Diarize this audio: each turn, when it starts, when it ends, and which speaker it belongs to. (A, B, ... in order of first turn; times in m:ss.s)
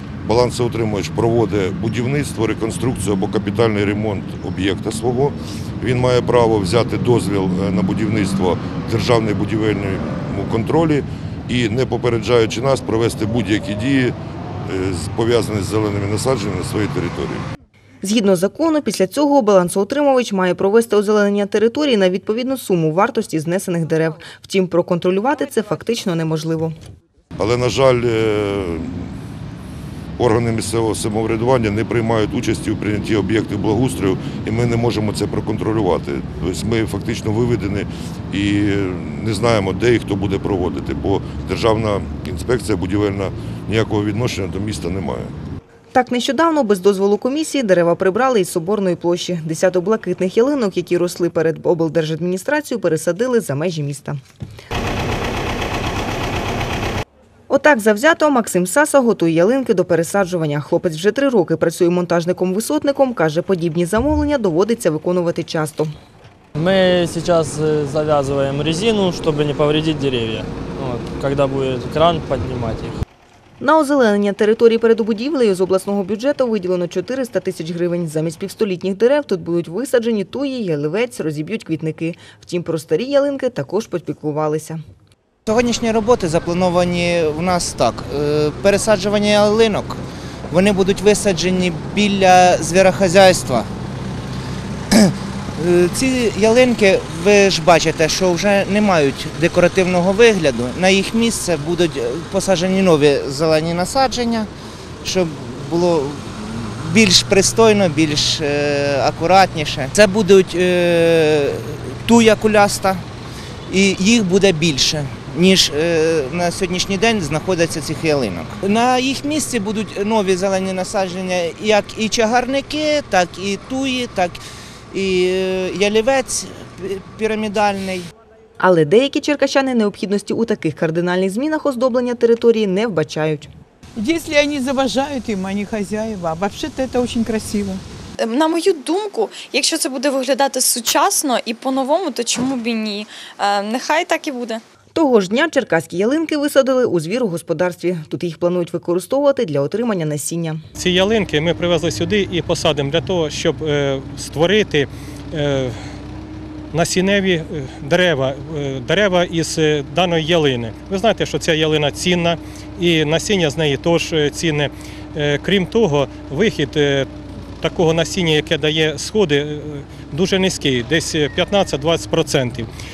0:00.2-0:14.1 A
0:14.7-0:17.4 A
0:18.0-0:26.7 B
0:27.4-0:29.1 A
0:30.2-0:45.3 A
0:45.9-0:54.2 B
0:57.5-1:05.9 B
1:06.5-1:13.0 C
1:13.6-1:24.8 B
1:25.4-1:33.7 D
1:34.9-1:44.5 D
1:45.0-1:53.0 D
1:53.7-2:08.1 D
2:08.6-2:13.5 B
2:14.0-2:17.8 E
2:18.2-2:24.6 F
2:24.9-2:30.6 B
2:30.8-2:35.8 G
2:36.7-2:47.1 G
2:47.6-2:52.7 G